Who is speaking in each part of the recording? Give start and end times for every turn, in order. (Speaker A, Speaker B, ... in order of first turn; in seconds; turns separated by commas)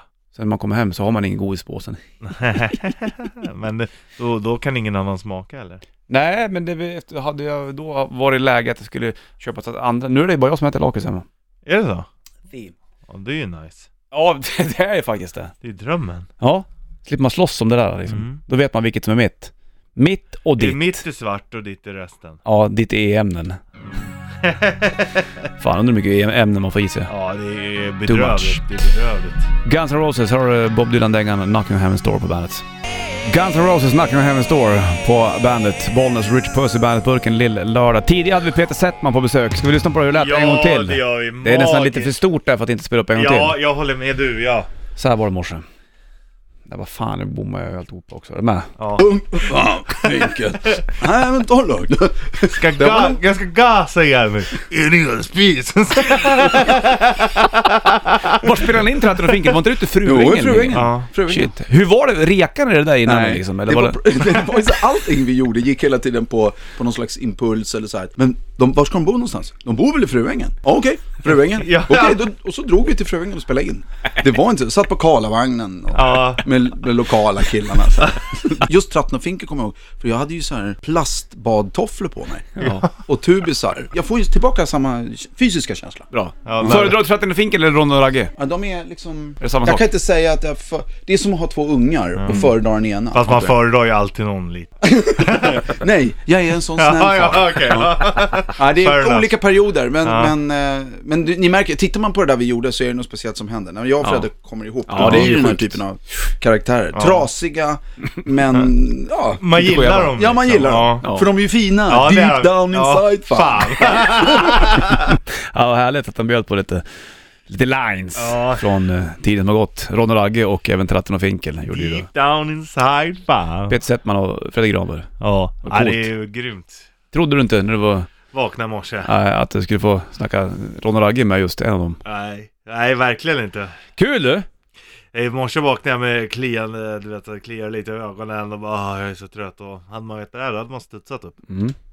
Speaker A: 0.3-2.0, Speaker B: 2.2-5.8, Speaker A: 6.1-11.2, Speaker B: 11.7-12.1, Speaker B: 13.1-13.9, Speaker A: 14.1-15.5, Speaker B: 15.6-16.3, Speaker A: 16.4-21.0, Speaker B: 18.1-18.4, Speaker B: 20.6-22.4, Speaker A: 22.4-23.6, Speaker B: 23.9-25.3, Speaker A: 25.6-27.1, Speaker B: 27.1-29.5, Speaker A: 28.1-28.6, Speaker A: 29.6-32.6, Speaker A: 33.2-43.6, Speaker B: 40.2-42.2, Speaker B: 43.1-44.7, Speaker A: 45.0-45.6, Speaker A: 46.7-48.7, Speaker B: 48.8-50.9, Speaker C: 49.0-53.2, Speaker B: 52.5-58.5, Speaker C: 56.5-56.8, Speaker A: 58.3-64.3, Speaker C: 60.0-61.5, Speaker B: 60.7-61.1, Speaker C: 63.0-87.0, Speaker B: 71.5-72.2, Speaker B: 75.9-76.5, Speaker A: 82.6-82.9, Speaker B: 82.6-82.9, Speaker A: 86.1-88.3, Speaker B: 86.4-87.0, Speaker C: 88.3-93.5, Speaker A: 89.4-89.9, Speaker B: 92.2-92.5, Speaker B: 93.1-95.8, Speaker C: 94.8-114.7, Speaker B: 96.8-99.3, Speaker B: 100.0-100.3, Speaker A: 104.9-105.8, Speaker B: 105.0-105.3, Speaker B: 106.9-107.3, Speaker B: 109.4-111.0, Speaker A: 109.6-110.2, Speaker A: 111.0-111.3, Speaker B: 111.9-115.2, Speaker A: 115.1-116.8, Speaker A: 117.5-122.1, Speaker B: 118.2-118.7, Speaker B: 121.7-123.8, Speaker A: 123.7-125.1, Speaker B: 125.2-126.9, Speaker A: 125.6-126.1, Speaker A: 127.1-128.1, Speaker B: 128.3-129.1, Speaker A: 129.0-132.0, Speaker B: 132.0-133.7, Speaker A: 133.9-134.5, Speaker B: 135.1-141.4, Speaker A: 141.5-141.7